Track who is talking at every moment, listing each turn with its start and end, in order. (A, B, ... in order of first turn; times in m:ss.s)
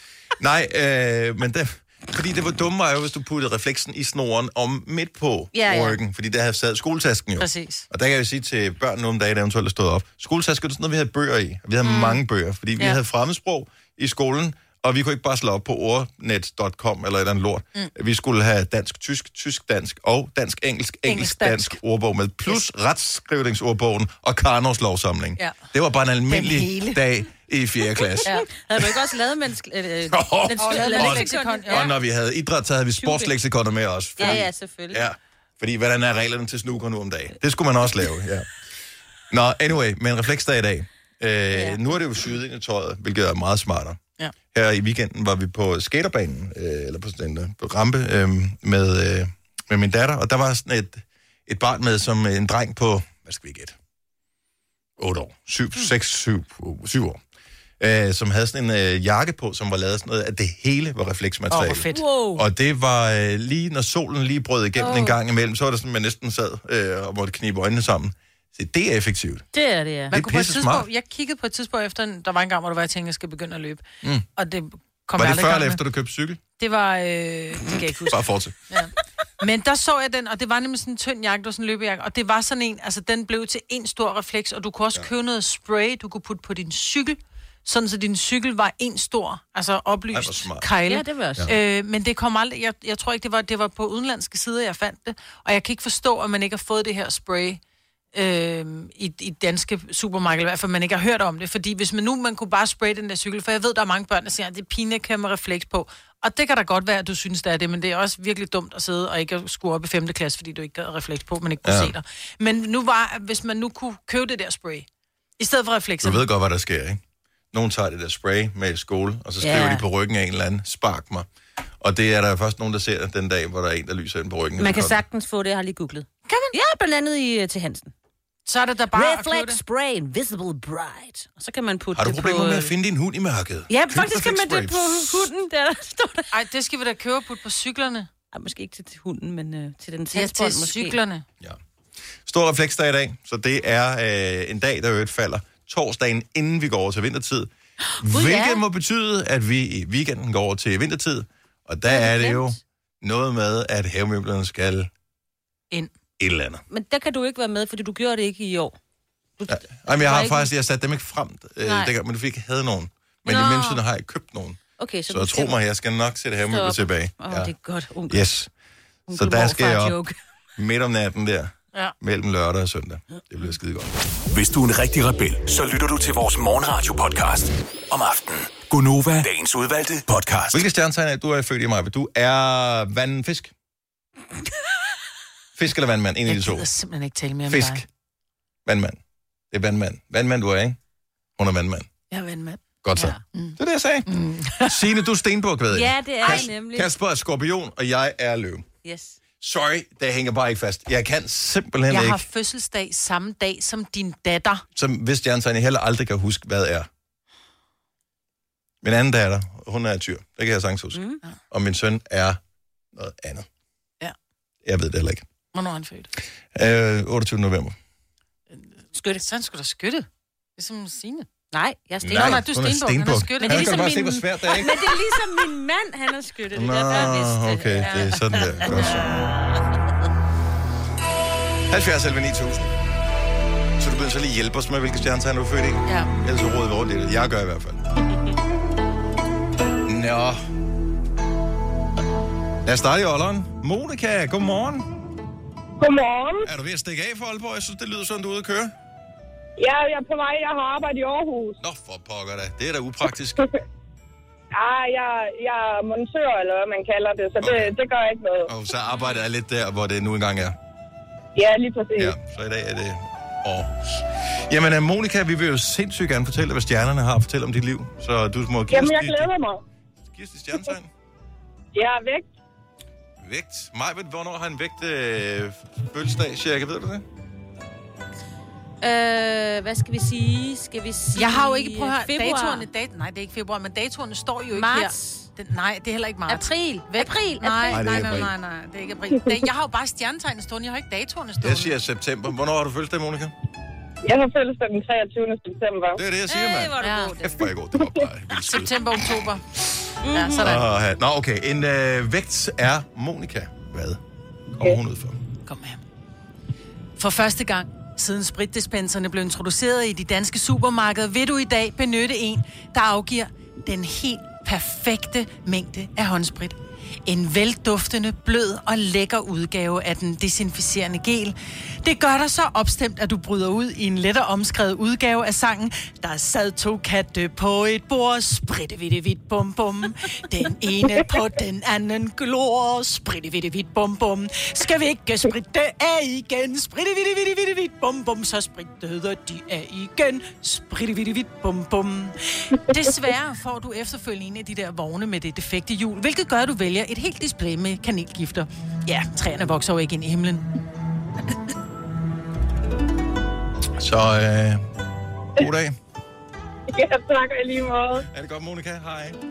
0:00.4-0:28.4 A
0:05.5-0:06.0 B
0:07.4-0:07.8 C
0:11.8-0:12.2 B
0:21.0-0:21.8 C
0:25.4-0:25.6 C
0:26.3-0:27.0 C
0:28.2-0:32.0 B
0:30.1-0:38.5 A
0:30.5-0:31.9 C
0:33.0-0:33.3 B
0:34.2-0:35.0 B
0:39.3-0:44.0 A
0:41.5-0:41.8 B
0:44.5-0:53.8 A
0:55.0-0:57.2 A
0:57.8-1:09.4 A
1:01.5-1:02.0 C
1:01.9-1:02.4 B
1:04.8-1:05.2 B
1:09.5-1:10.1 B
1:10.1-1:10.9 A
1:10.1-1:13.8 C
1:14.4-1:15.8 C
1:15.2-1:16.4 A
1:16.6-1:18.2 C
1:18.1-1:18.6 A
1:18.7-1:37.6 C
1:30.1-1:30.7 A
1:30.8-1:31.5 B
1:38.1-1:54.9 C
1:51.6-1:52.0 A
1:55.4-1:56.2 C
1:56.0-1:57.0 A
1:57.5-2:01.3 A
1:59.4-1:59.8 B
2:01.8-2:05.0 A
2:04.6-2:07.9 B
2:06.3-2:06.5 C
2:08.4-2:09.6 C
2:08.9-2:12.7 B
2:11.9-2:15.3 A
2:13.7-2:16.3 B
2:16.3-2:18.1 C
2:18.3-2:21.0 B
2:20.1-2:21.2 C
2:22.2-2:27.5 A
2:27.9-2:28.6 B
2:28.0-2:34.9 A
2:31.9-2:32.5 B
2:36.2-2:36.6 A
2:36.7-2:38.7 B
2:39.4-2:40.5 B
2:39.5-2:47.5 A
2:41.6-2:41.9 B
2:43.2-2:43.8 B
2:44.8-2:45.6 B
2:46.5-2:48.3 B
2:48.1-2:48.5 A
2:49.1-2:50.1 B
2:49.1-2:50.0 A
2:50.6-2:53.9 A
2:54.3-3:00.6 D
3:00.5-3:03.5 A
3:05.5-3:06.6 A
3:06.2-3:07.8 C
3:07.5-3:07.8 A
3:08.6-3:09.0 A
3:09.5-3:10.8 A
3:11.4-3:11.9 A
3:12.1-3:12.6 C
3:12.8-3:14.1 A
3:13.3-3:14.8 C
3:14.6-3:18.6 A
3:15.7-3:16.9 B
3:18.8-3:19.2 B
3:19.4-3:22.2 A
3:21.9-3:24.6 C
3:24.7-3:26.9 A
3:28.8-3:32.4 A
3:30.9-3:31.2 B
3:32.9-3:33.5 A
3:34.6-3:35.2 A
3:35.5-3:36.1 C
3:36.5-3:37.8 A
3:38.5-3:41.3 C
3:38.9-3:39.2 B
3:41.5-3:42.4 B
3:42.0-3:45.0 A
3:42.1-3:44.1 C
3:43.4-3:49.5 B
3:46.5-3:49.1 A
3:48.6-3:49.0 C
3:51.7-3:52.8 A
3:53.8-3:57.8 A
3:59.8-4:00.4 A
4:02.6-4:04.9 A
4:05.8-4:06.5 E
4:06.4-4:08.7 A
4:09.6-4:11.6 E
4:11.6-4:13.4 A
4:14.5-4:18.5 E
4:17.4-4:17.8 A
4:18.4-4:20.5 A
4:21.4-4:22.1 E
4:21.9-4:29.3 A
4:28.7-4:29.6 E
4:30.1-4:30.9 A
4:31.7-4:32.3 E
4:33.2-4:37.0 A
4:38.8-4:42.6 B
4:41.1-4:51.7 C
4:44.5-4:45.3 B
4:46.3-4:47.8 B
4:47.7-4:48.3 A
4:51.4-4:53.3 A
4:54.0-4:56.0 E
4:56.0-4:59.2 A
4:56.3-4:57.5 B
4:56.8-4:57.1 C
4:58.4-4:59.4 C
5:00.0-5:00.5 B
5:00.1-5:00.6 C
5:00.4-5:04.0 A
5:04.5-5:05.2 A
5:05.4-5:05.8 C
5:07.0-5:50.4 C
5:53.8-5:54.6 A
5:55.4-5:55.8 A
5:56.7-5:58.0 E
5:58.1-5:59.2 A